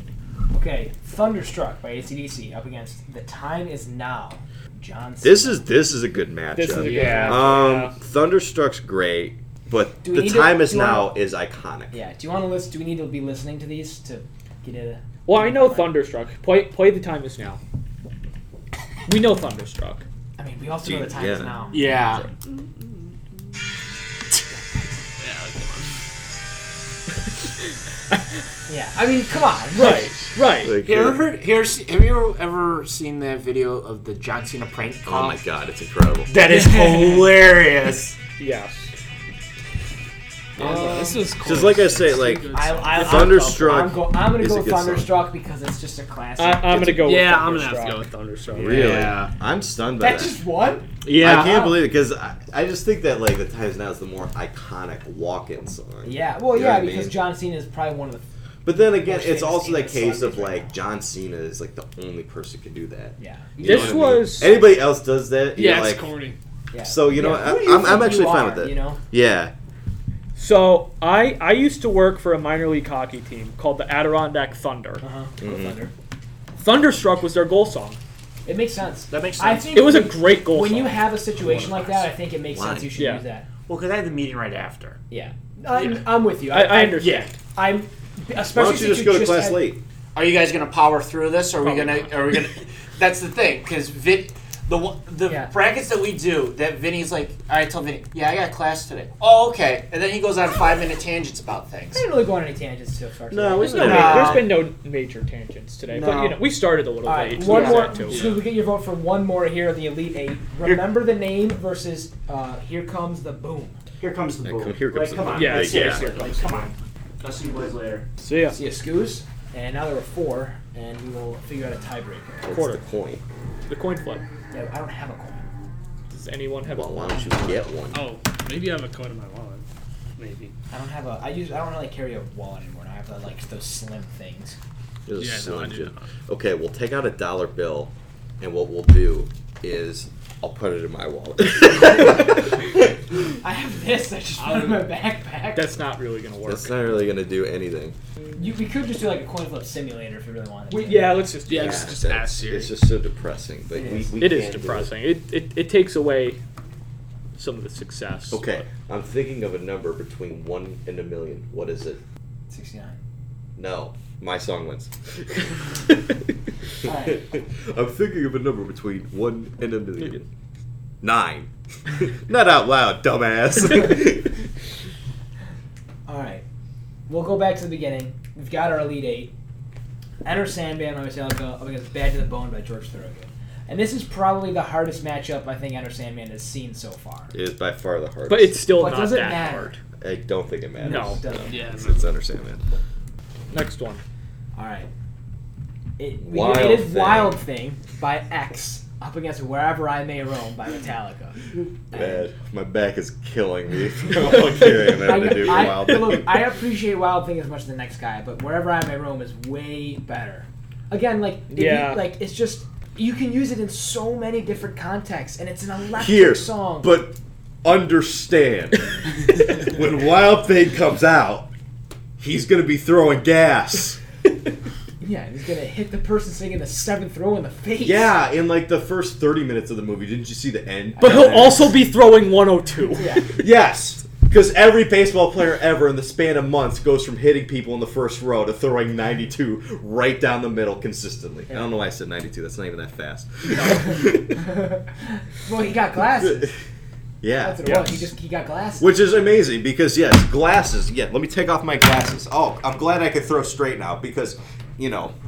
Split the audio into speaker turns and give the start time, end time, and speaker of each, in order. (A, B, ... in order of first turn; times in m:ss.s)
0:00.5-0:05.7 A
0:05.2-0:12.0 B
0:06.5-0:08.0 C
0:06.7-0:07.6 D
0:10.0-0:11.1 A
0:11.9-0:15.9 A
0:15.3-0:17.6 C
0:19.1-0:20.0 C
0:20.4-0:21.9 A
0:20.8-0:22.3 B
0:21.7-0:22.2 D
0:25.2-0:25.9 E
0:28.7-0:30.2 A
0:29.8-0:30.7 C
0:30.6-0:31.3 B
0:30.8-0:35.4 D
0:35.0-0:36.3 B
0:36.3-0:38.2 D
0:36.5-0:37.3 E
0:38.4-0:38.9 C
0:40.6-0:45.1 B
0:40.6-0:41.2 A
0:40.6-0:43.5 E
0:42.5-0:47.0 A
0:46.4-0:48.0 C
0:47.0-0:49.0 E
0:47.4-0:47.7 B
0:48.5-0:50.4 B
0:48.6-0:49.3 D
0:50.0-0:50.9 A
0:51.0-0:51.8 D
0:51.2-0:57.2 B
0:56.0-0:58.3 A
0:58.6-1:06.1 B
0:58.9-1:00.8 A
1:03.2-1:04.1 A
1:03.6-1:04.6 C
1:05.5-1:06.4 E
1:06.7-1:09.0 A
1:06.8-1:09.5 B
1:10.4-1:15.0 C
1:15.0-1:15.9 A
1:15.4-1:15.8 B
1:16.6-1:18.0 C
1:18.5-1:23.5 A
1:19.1-1:20.0 D
1:19.7-1:21.1 C
1:21.4-1:22.1 D
1:22.5-1:22.9 B
1:23.0-1:23.2 C
1:23.7-1:25.0 D
1:25.1-1:29.7 A
1:26.5-1:27.4 C
1:27.0-1:27.3 D
1:28.5-1:29.8 B
1:30.2-1:42.0 D
1:31.6-1:32.1 C
1:35.2-1:35.5 A
1:41.9-1:44.4 A
1:43.3-1:44.6 B
1:43.6-1:48.2 C
1:43.7-1:44.6 D
1:45.9-1:46.4 D
1:47.0-1:53.8 A
1:47.4-1:48.2 D
1:48.1-1:48.4 E
1:54.0-1:58.1 D
1:54.4-1:56.1 B
1:55.3-1:56.7 C
1:58.2-1:58.6 C
1:58.5-2:02.4 A
2:02.4-2:03.2 B
2:02.5-2:02.8 C
2:03.7-2:04.2 C
2:04.5-2:05.4 A
2:06.1-2:07.6 C
2:06.6-2:08.1 B
2:07.9-2:09.6 E
2:10.2-2:10.5 E
2:10.7-2:14.6 A
2:15.1-2:22.9 B
2:15.2-2:16.1 E
2:23.4-2:25.8 A
2:24.4-2:24.9 E
2:25.5-2:27.1 C
2:26.4-2:28.0 B
2:28.4-2:31.3 A
2:30.7-2:32.0 C
2:31.5-2:32.8 E
2:31.5-2:34.9 B
2:33.7-2:34.2 A
2:34.2-2:36.4 C
2:37.4-2:38.6 C
2:38.3-2:42.0 B
2:42.5-2:43.0 A
2:43.6-2:45.8 B
2:46.8-2:47.2 A
2:46.9-2:50.3 B
2:51.0-2:54.4 B
2:56.1-2:56.4 A
2:57.1-2:59.3 A
3:00.2-3:07.3 A
3:07.3-3:08.7 B
3:08.3-3:09.5 C
3:08.8-3:09.8 A
3:09.4-3:12.6 B
3:10.8-3:11.6 A
3:10.8-3:11.3 C
3:11.5-3:12.1 E
3:13.5-3:14.0 C
3:14.6-3:14.9 A
3:16.0-3:22.3 A
3:16.2-3:17.4 B
3:21.9-3:26.4 B
3:25.0-3:36.9 A
3:31.5-3:32.1 C
3:36.0-3:41.5 B
3:42.2-3:44.0 B
3:45.0-3:48.1 A
3:47.8-3:51.8 B
3:51.0-3:51.6 A
3:51.0-3:53.2 C
3:53.0-3:53.3 A
3:53.3-4:04.5 B
4:04.5-4:04.8 A
4:05.3-4:06.5 A
4:06.2-4:06.6 B
4:07.2-4:07.6 B
4:07.4-4:08.9 A
4:07.6-4:08.0 C
4:08.8-4:15.1 B